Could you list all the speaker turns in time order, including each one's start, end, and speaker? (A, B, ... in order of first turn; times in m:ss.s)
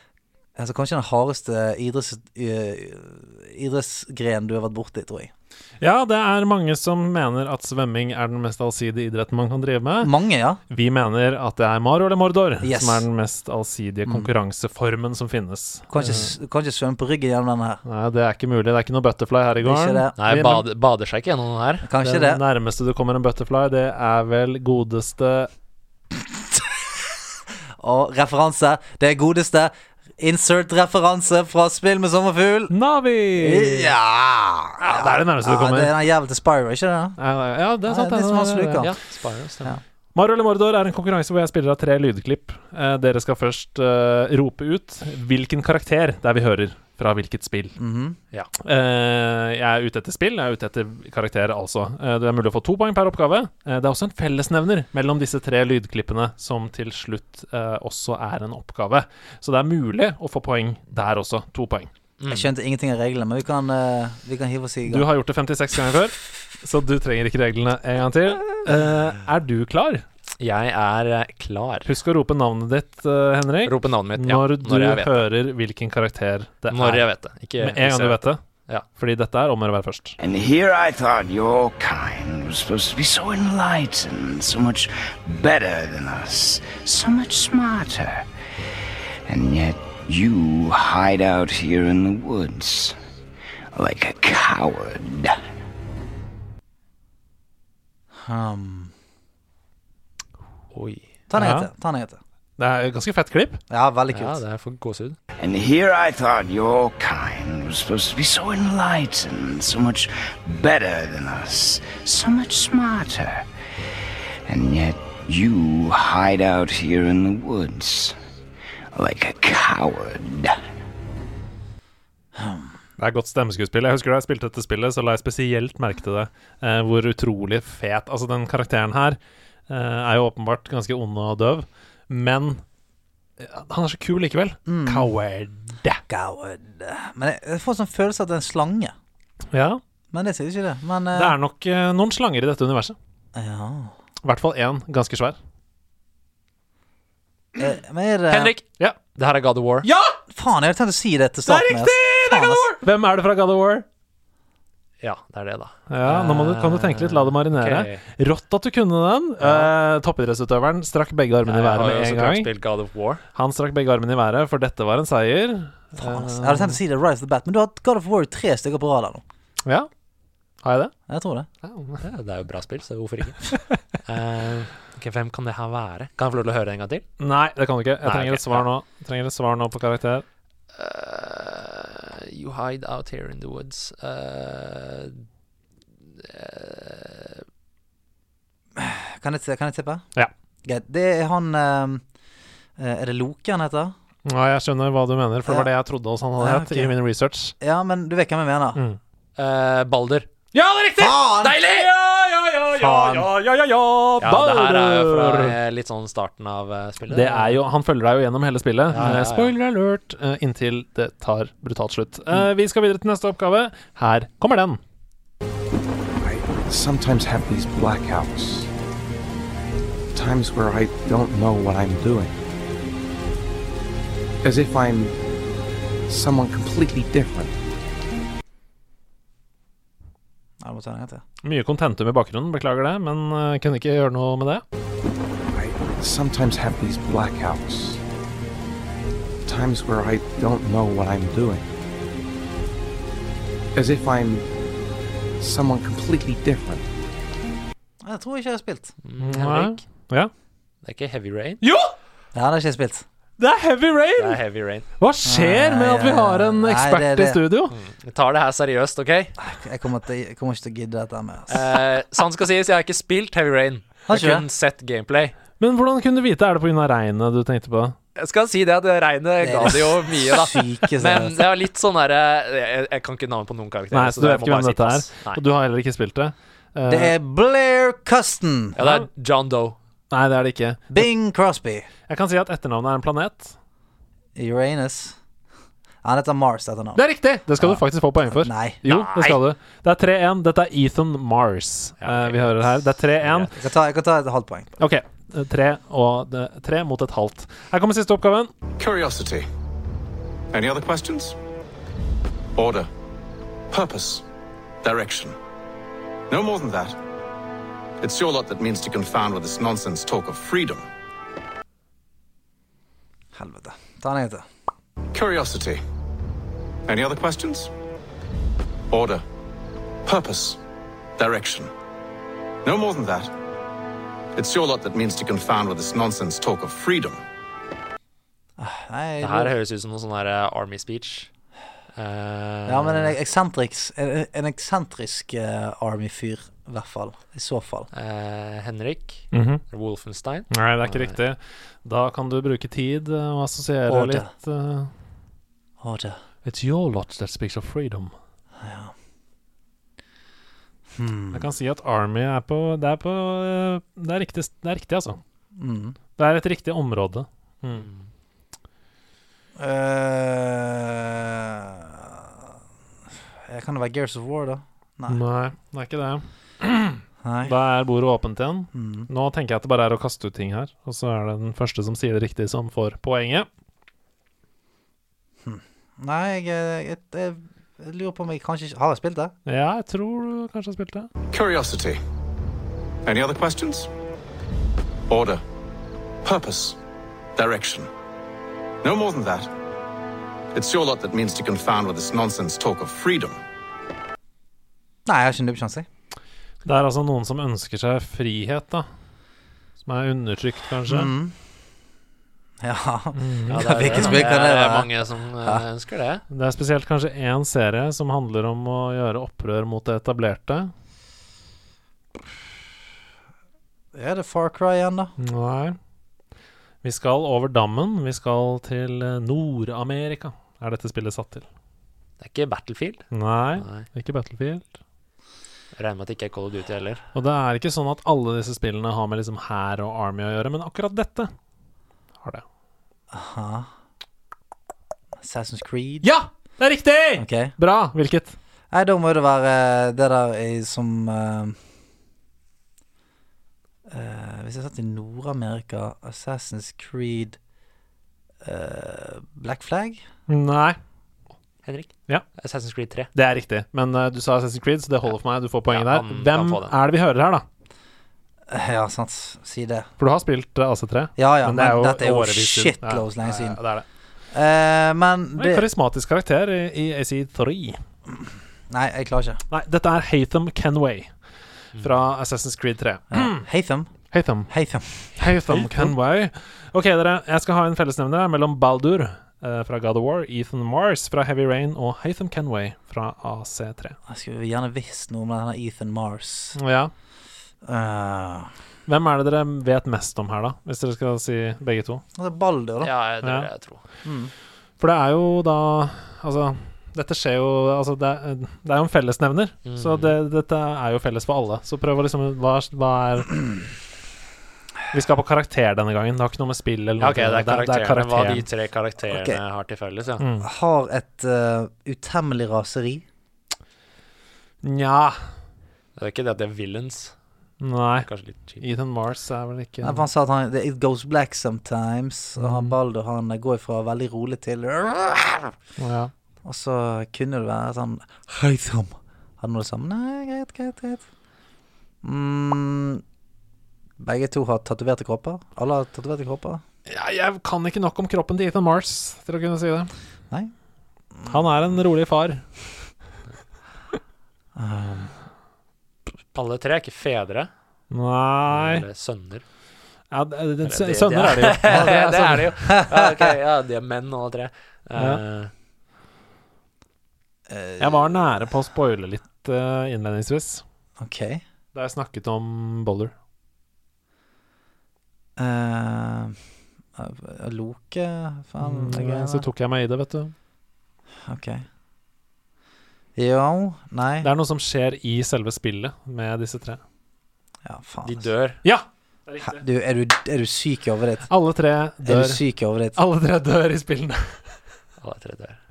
0:00.6-0:05.3 A
0:05.8-0:10.1 B
0:10.0-0:10.6 A
0:10.7-0:16.3 B
0:12.6-0:13.0 A
0:15.9-0:17.8 A
0:17.8-0:20.6 B
0:19.6-0:20.1 A
0:20.2-0:21.8 C
0:21.8-0:22.4 A
0:22.0-0:25.5 B
0:27.8-0:32.7 A
0:32.7-0:33.9 B
0:33.4-0:37.2 A
0:34.8-0:35.9 B
0:37.2-0:38.9 B
0:37.8-0:38.9 A
0:38.8-0:39.8 C
0:40.1-0:47.8 B
0:47.8-0:48.2 A
0:48.6-1:01.9 B
1:02.2-1:02.5 C
1:02.3-1:05.1 A
1:04.8-1:10.0 B
1:10.4-1:11.9 C
1:11.8-1:17.0 B
1:13.6-1:15.2 C
1:16.7-1:18.8 C
1:17.6-1:18.4 B
1:19.0-1:20.2 B
1:20.2-1:28.2 D
1:29.3-1:33.0 D
1:33.7-1:35.4 D
1:38.2-1:38.9 A
1:40.7-1:41.1 C
1:41.3-1:42.2 A
1:41.3-1:41.7 B
1:42.6-1:43.6 B
1:43.7-1:44.4 A
1:44.1-1:45.2 C
1:45.4-1:53.4 D
1:54.5-1:58.2 D
1:58.9-2:00.6 D
2:02.4-2:02.6 A
2:03.0-2:12.6 B
2:13.4-2:16.0 B
2:14.6-2:15.1 A
2:16.1-2:18.9 A
2:19.5-2:19.8 B
2:20.1-2:21.3 A
2:21.1-2:23.0 B
2:23.3-2:23.9 A
2:24.2-2:25.4 B
2:27.6-2:28.5 A
2:28.3-2:29.9 C
2:29.8-2:30.2 B
2:30.3-2:32.7 A
2:31.4-2:33.8 B
2:35.0-2:38.0 C
2:35.9-2:42.5 B
2:41.4-2:43.2 C
2:43.3-2:46.8 B
2:46.0-2:49.2 A
2:49.6-2:49.9 B
2:50.6-2:50.9 B
2:51.1-2:51.5 A
2:51.6-2:52.0 B
2:52.0-2:57.0 C
2:57.2-3:00.2 B
2:58.0-2:58.6 C
3:00.7-3:05.2 C
3:06.2-3:07.4 C
3:08.8-3:10.0 A
3:10.6-3:12.0 A
3:12.8-3:13.9 A
3:14.2-3:17.5 B
3:16.4-3:16.9 A
3:17.6-3:18.8 A
3:18.7-3:19.0 B
3:19.4-3:20.3 C
3:20.5-3:25.6 B
3:21.0-3:21.6 A
3:21.5-3:21.9 C
3:22.8-3:23.3 A
3:24.2-3:27.6 C
3:27.1-3:34.8 B
3:28.9-3:29.5 C
3:36.2-3:38.7 E
3:40.1-3:42.4 E
3:44.4-3:45.1 E
3:46.1-3:47.5 E
3:50.6-3:51.2 A
3:51.4-3:54.6 B
3:55.5-3:58.0 E
3:59.4-4:01.7 E
4:03.7-4:04.4 E
4:05.4-4:06.8 E
4:08.0-4:08.9 A
4:09.0-4:09.8 C
4:09.2-4:10.3 B
4:10.8-4:11.6 C
4:11.6-4:11.9 B
4:12.3-4:13.0 A
4:13.4-4:14.4 B
4:14.2-4:14.8 C
4:15.0-4:17.7 B
4:15.2-4:17.4 A
4:17.7-4:19.4 C
4:19.4-4:21.7 A
4:21.5-4:25.4 C
4:24.1-4:24.4 A
4:25.6-4:28.0 B
4:28.2-4:35.4 C
4:29.4-4:31.4 A
4:33.9-4:37.1 B
4:36.9-4:38.8 A
4:38.8-4:39.8 C
4:38.8-4:39.0 B
4:40.1-4:41.1 B
4:40.9-4:41.9 A
4:42.1-4:43.6 B
4:44.4-4:45.2 A
4:46.0-4:47.0 A
4:47.0-4:53.5 B
4:47.6-4:48.8 A
4:48.8-4:49.4 C
4:52.0-4:53.5 C
4:53.6-4:54.7 A
4:54.8-4:58.5 B
4:58.8-4:59.5 F
5:00.5-5:01.4 F
5:02.6-5:02.9 F
5:03.7-5:04.2 F
5:04.8-5:05.4 F
5:06.3-5:07.0 F
5:08.0-5:10.8 F
5:13.3-5:14.4 A
5:15.1-5:15.8 F
5:16.9-5:17.7 F
5:18.9-5:19.2 F
5:20.0-5:20.6 F
5:21.2-5:21.7 F
5:22.6-5:23.3 F
5:24.4-5:27.2 F
5:28.6-5:29.5 A
5:29.2-5:31.3 C
5:32.0-5:33.2 C
5:32.7-5:37.9 A
5:37.9-5:41.2 C
5:39.3-5:39.6 B
5:40.5-5:44.9 B
5:43.9-5:44.3 A
5:45.8-5:46.2 A
5:46.4-5:48.1 B
5:48.6-5:48.9 A
5:50.9-5:51.5 A
5:51.3-5:55.2 B
5:55.6-5:56.0 A
5:56.2-5:57.9 B
5:57.7-5:58.0 C
5:59.6-6:02.2 A
6:03.5-6:05.2 A
6:05.1-6:13.5 B
6:07.2-6:07.5 A
6:08.7-6:09.1 A
6:15.4-6:19.3 A
6:19.4-6:21.1 B
6:21.3-6:22.0 F
6:23.0-6:23.9 F
6:25.1-6:25.4 F
6:26.2-6:26.8 F
6:27.4-6:27.9 F
6:28.8-6:29.5 F
6:30.5-6:33.4 F
6:35.0-6:35.8 A
6:36.6-6:38.9 B
6:39.8-6:41.1 B
6:40.9-6:41.4 A
6:42.6-6:44.9 A
6:43.1-6:44.2 B
6:43.5-6:46.2 C
6:46.3-6:50.7 B
6:53.9-6:55.1 A
6:55.2-6:55.8 B
6:56.8-7:01.4 B
7:02.2-7:03.0 C
7:03.1-7:04.7 B
7:03.6-7:03.9 C
7:05.8-7:07.0 C
7:07.1-7:11.3 B
7:13.1-7:13.7 A
7:15.2-7:16.1 A
7:16.0-7:18.4 B
7:17.2-7:17.5 A
7:18.7-7:21.6 A
7:23.9-7:27.4 A
7:28.4-7:30.0 A
7:30.3-7:30.8 B
7:31.6-7:33.1 C
7:33.1-7:37.4 B
7:35.7-7:36.7 C
7:38.5-7:39.9 A
7:40.0-7:43.8 B
7:41.2-7:43.6 A
7:44.3-7:45.6 A
7:45.4-7:47.8 B
7:48.7-7:49.4 A
7:49.5-7:51.1 B
7:51.8-7:53.4 B
7:53.1-7:53.9 A
7:54.1-7:54.5 B
7:54.5-7:55.9 A
7:55.1-8:04.0 B
8:04.1-8:06.6 A
8:06.5-8:06.9 B
8:07.6-8:08.5 A
8:08.9-8:12.0 B
8:12.2-8:12.9 A
8:12.8-8:13.8 C
8:13.2-8:13.5 B
8:14.0-8:14.3 A
8:14.8-8:23.5 B
8:19.6-8:20.2 C
8:24.9-8:28.4 B
8:27.0-8:30.2 C
8:29.1-8:29.4 A
8:30.2-8:30.5 B
8:30.4-8:33.0 A
8:34.6-8:35.2 B
8:36.0-8:37.1 C
8:37.6-8:38.1 B
8:38.0-8:38.6 C
8:38.6-8:40.0 B
8:39.8-8:45.5 A
8:42.4-8:42.8 B
8:45.8-8:46.1 B
8:46.4-8:51.0 A
8:52.0-8:53.0 A
8:54.0-8:56.6 A
8:56.9-8:59.9 B
9:01.3-9:02.5 B
9:04.6-9:05.1 A
9:06.3-9:07.5 C
9:07.9-9:08.8 B
9:08.5-9:09.4 C
9:10.1-9:12.6 B
9:10.6-9:15.5 C
9:12.7-9:13.0 A
9:14.9-9:15.2 B
9:17.5-9:18.1 A
9:17.8-9:20.6 B
9:21.0-9:21.4 A
9:21.7-9:23.1 B
9:25.4-9:26.4 A
9:27.0-9:29.4 A
9:28.6-9:30.3 B
9:31.2-9:31.6 A
9:33.2-9:34.3 A
9:34.2-9:36.8 B
9:37.6-9:38.3 A
9:38.0-9:38.6 C
9:38.6-9:39.6 B
9:39.4-9:41.3 A
9:41.3-9:42.4 B
9:42.0-9:43.0 A
9:42.9-9:44.4 B
9:45.0-9:45.6 C